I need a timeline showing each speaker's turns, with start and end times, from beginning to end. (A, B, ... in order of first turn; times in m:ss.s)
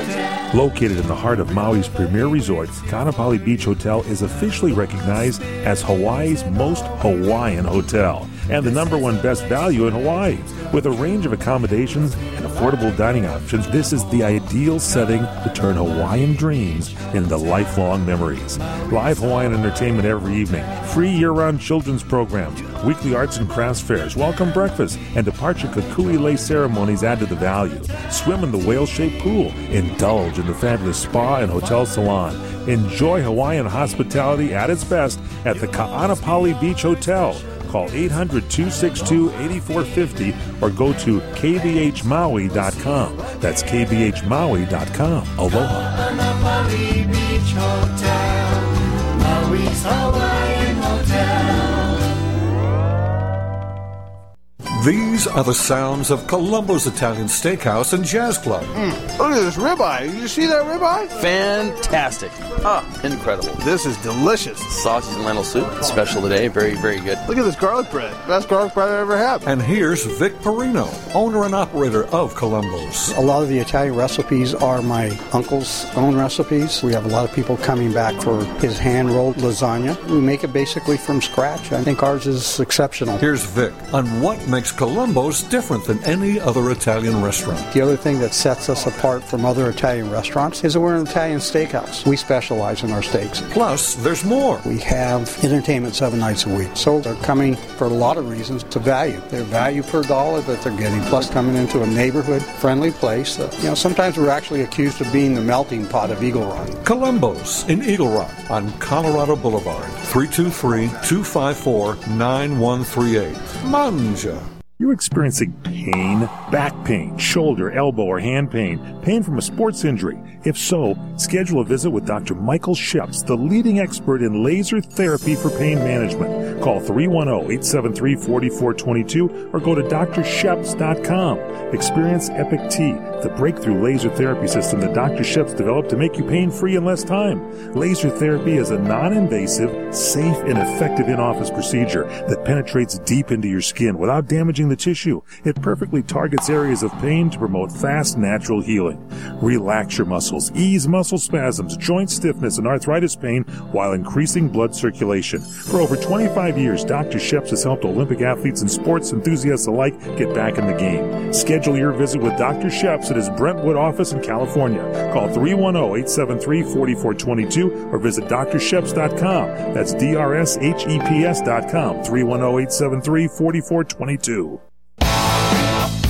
0:00.5-0:46.0 A
0:47.8-0:48.2 B
0:49.5-0:51.5 B
0:54.8-0:58.7 C
0:58.7-1:01.2 B
1:01.2-1:03.6 D
1:02.6-1:02.9 B
1:03.6-1:04.7 B
1:04.7-1:07.2 D
1:07.3-1:09.4 B
1:09.5-1:13.2 C
1:13.1-1:23.2 E
1:23.2-1:27.7 C
1:27.7-1:33.4 E
1:33.5-1:34.6 C
1:34.6-1:46.8 E
1:46.8-1:54.4 C
1:54.8-2:54.6 A